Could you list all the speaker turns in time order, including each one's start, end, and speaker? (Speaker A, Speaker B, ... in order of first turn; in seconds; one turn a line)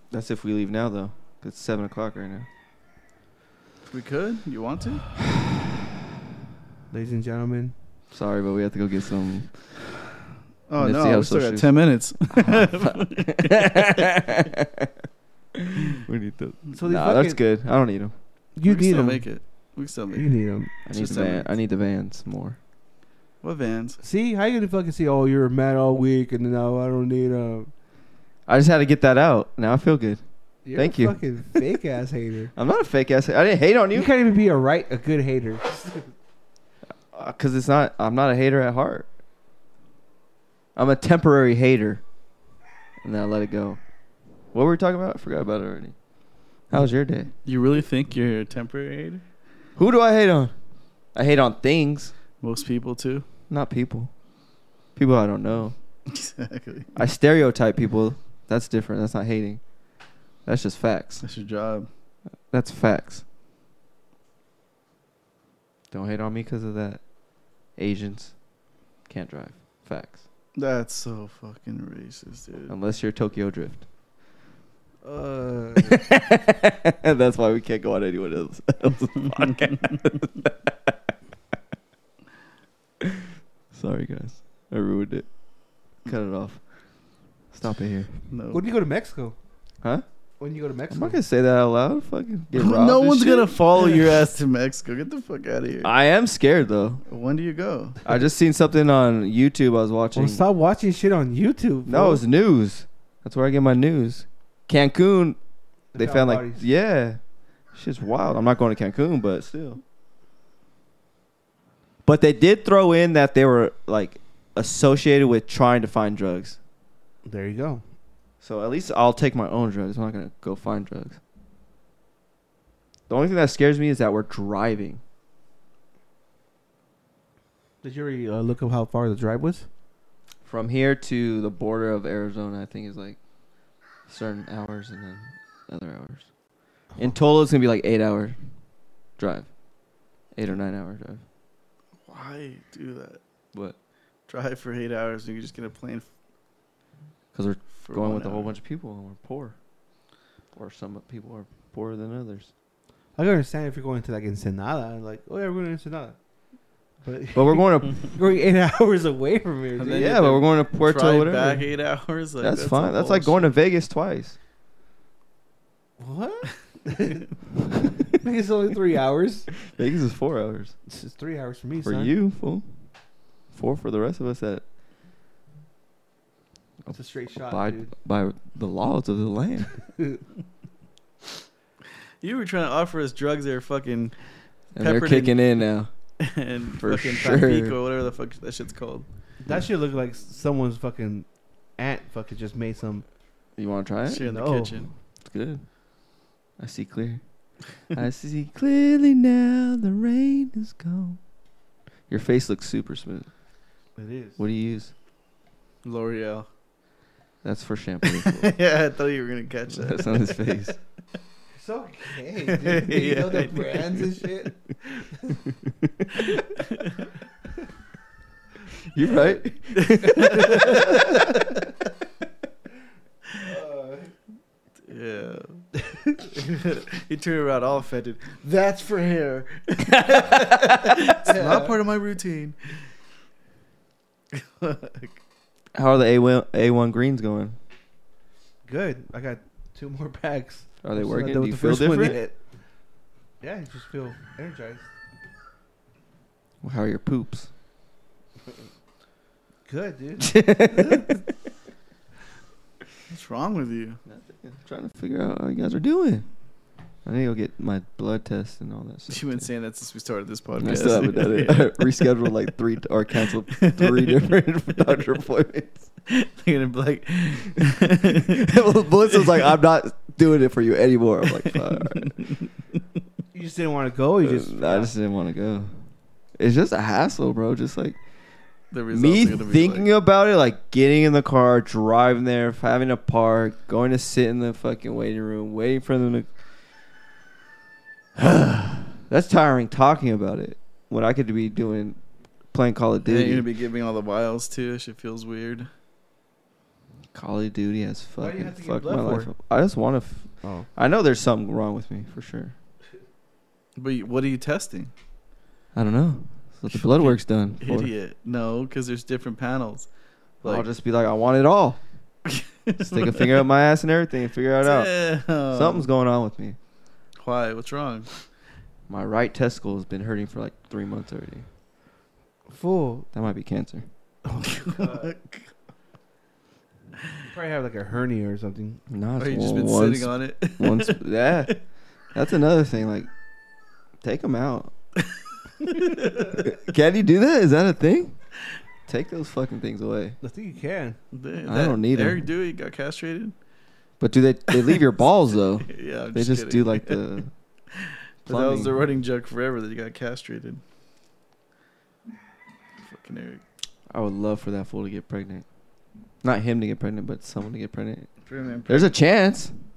Speaker A: 0.1-2.5
Speaker B: 3.9-5.1
Speaker C: 6.9-7.8
Speaker A: 8.1-9.8
Speaker B: 10.7-14.0
Speaker A: 10.8-11.8
Speaker A: 12.3-14.9
Speaker A: 15.6-18.1
Speaker C: 16.8-17.4
Speaker C: 18.6-19.4
Speaker B: 18.7-20.3
Speaker C: 20.1-20.7
Speaker A: 20.9-22.6
Speaker B: 20.9-21.5
Speaker B: 23.4-24.0
Speaker C: 24.0-27.7
Speaker A: 28.5-30.2
Speaker C: 30.6-32.5
Speaker A: 30.8-31.2
Speaker A: 32.6-34.1
Speaker C: 33.9-36.0
Speaker A: 37.1-39.1
Speaker A: 40.8-42.0
Speaker A: 43.0-43.8
Speaker A: 44.5-45.9
Speaker A: 46.7-47.3
Speaker B: 47.4-49.2
Speaker A: 49.8-50.5
Speaker A: 51.1-52.1
Speaker B: 52.4-53.2
Speaker A: 53.5-54.1
Speaker A: 55.0-55.8
Speaker B: 56.1-56.9
Speaker A: 57.0-59.6
Speaker A: 60.5-61.2
Speaker B: 61.2-61.9
Speaker A: 62.5-63.2
Speaker A: 65.9-67.0
Speaker A: 67.8-68.3
Speaker A: 69.1-70.2
Speaker B: 70.6-72.7
Speaker A: 72.7-73.8
Speaker C: 75.0-76.1
Speaker A: 75.8-81.0
Speaker A: 83.7-85.3
Speaker A: 86.0-86.6
Speaker A: 87.5-88.1
Speaker B: 88.3-88.6
Speaker C: 88.5-89.4
Speaker C: 90.4-91.2
Speaker A: 90.9-93.6
Speaker B: 92.5-95.9
Speaker A: 95.8-97.0
Speaker B: 97.1-98.0
Speaker A: 98.0-100.4
Speaker C: 100.2-102.2
Speaker A: 101.9-105.4
Speaker C: 105.9-106.7
Speaker A: 106.0-107.2
Speaker A: 107.7-109.8
Speaker A: 112.0-116.6
Speaker C: 117.2-117.8
Speaker A: 118.4-121.2
Speaker A: 123.1-125.0
Speaker C: 127.8-129.7
Speaker A: 130.4-133.2
Speaker A: 134.1-136.3
Speaker A: 137.0-138.4
Speaker A: 139.2-139.5
Speaker A: 140.3-141.2
Speaker B: 142.1-143.2
Speaker B: 144.3-146.1
Speaker A: 147.3-149.6
Speaker B: 147.8-148.6
Speaker A: 150.5-152.5
Speaker C: 153.2-156.2
Speaker C: 157.0-160.1
Speaker A: 157.3-158.2
Speaker B: 159.8-163.5
Speaker A: 159.9-161.7
Speaker A: 162.4-164.4
Speaker C: 166.0-167.4
Speaker C: 168.0-169.7
Speaker A: 169.7-170.7
Speaker C: 170.9-172.1
Speaker A: 171.8-172.7
Speaker A: 173.5-174.6
Speaker A: 176.8-179.8
Speaker C: 176.9-177.9
Speaker C: 180.0-180.2
Speaker B: 182.2-185.5
Speaker A: 184.8-185.9
Speaker B: 186.2-189.1
Speaker A: 186.7-187.8
Speaker C: 189.4-193.1
Speaker A: 193.6-194.2
Speaker B: 194.1-194.9
Speaker C: 194.2-194.9
Speaker A: 195.2-195.6
Speaker A: 196.6-197.2
Speaker A: 197.9-201.2
Speaker A: 202.1-203.3
Speaker C: 204.0-204.4
Speaker A: 204.4-204.9
Speaker B: 205.8-206.5
Speaker A: 207.4-208.5
Speaker B: 208.1-210.2
Speaker A: 209.7-210.8
Speaker C: 211.5-215.4
Speaker B: 212.5-214.1
Speaker B: 216.6-217.1
Speaker A: 218.9-221.4
Speaker C: 219.0-219.4
Speaker B: 219.8-221.6
Speaker C: 220.4-221.1
Speaker C: 223.4-224.1
Speaker B: 224.8-225.7
Speaker B: 226.3-232.8
Speaker A: 230.1-231.2
Speaker C: 231.2-231.8
Speaker B: 234.3-235.2
Speaker A: 235.7-237.6
Speaker C: 238.7-242.4
Speaker A: 240.8-242.2
Speaker C: 243.4-244.9
Speaker A: 246.6-247.5
Speaker C: 249.7-250.5
Speaker A: 250.2-251.2
Speaker B: 253.1-254.0
Speaker A: 254.1-256.2
Speaker A: 257.1-259.4
Speaker B: 259.1-262.3
Speaker A: 260.6-265.9
Speaker B: 263.5-264.2
Speaker B: 266.1-268.5
Speaker A: 268.4-272.1
Speaker B: 269.1-269.6
Speaker B: 271.4-272.8
Speaker C: 273.3-274.9
Speaker A: 274.2-275.7
Speaker A: 276.4-278.0
Speaker B: 278.7-279.9
Speaker A: 278.9-286.3
Speaker A: 288.2-292.0
Speaker A: 292.5-293.4
Speaker B: 293.0-295.7
Speaker A: 297.1-302.6
Speaker C: 298.2-299.3
Speaker C: 300.4-300.7
Speaker B: 303.8-304.9
Speaker A: 305.7-307.9
Speaker B: 306.7-309.9
Speaker B: 310.4-310.7
Speaker A: 310.4-311.8
Speaker B: 312.3-313.4
Speaker A: 312.8-316.6
Speaker B: 314.6-315.9
Speaker B: 317.2-318.1
Speaker A: 318.9-321.5
Speaker C: 322.5-323.1
Speaker A: 323.1-323.9
Speaker C: 324.3-325.1
Speaker B: 324.4-325.5
Speaker C: 327.3-328.8
Speaker A: 328.9-333.1
Speaker B: 329.2-331.6
Speaker A: 334.0-334.7
Speaker B: 335.6-336.4
Speaker A: 336.2-338.2
Speaker A: 338.9-340.2
Speaker C: 340.2-341.0
Speaker B: 341.1-343.4
Speaker A: 341.5-342.2
Speaker A: 344.0-347.3
Speaker B: 345.7-347.0
Speaker B: 347.7-350.6
Speaker A: 348.3-348.8
Speaker B: 352.8-353.4
Speaker A: 353.9-355.4
Speaker A: 356.2-358.1
Speaker B: 358.3-359.0
Speaker A: 358.7-359.5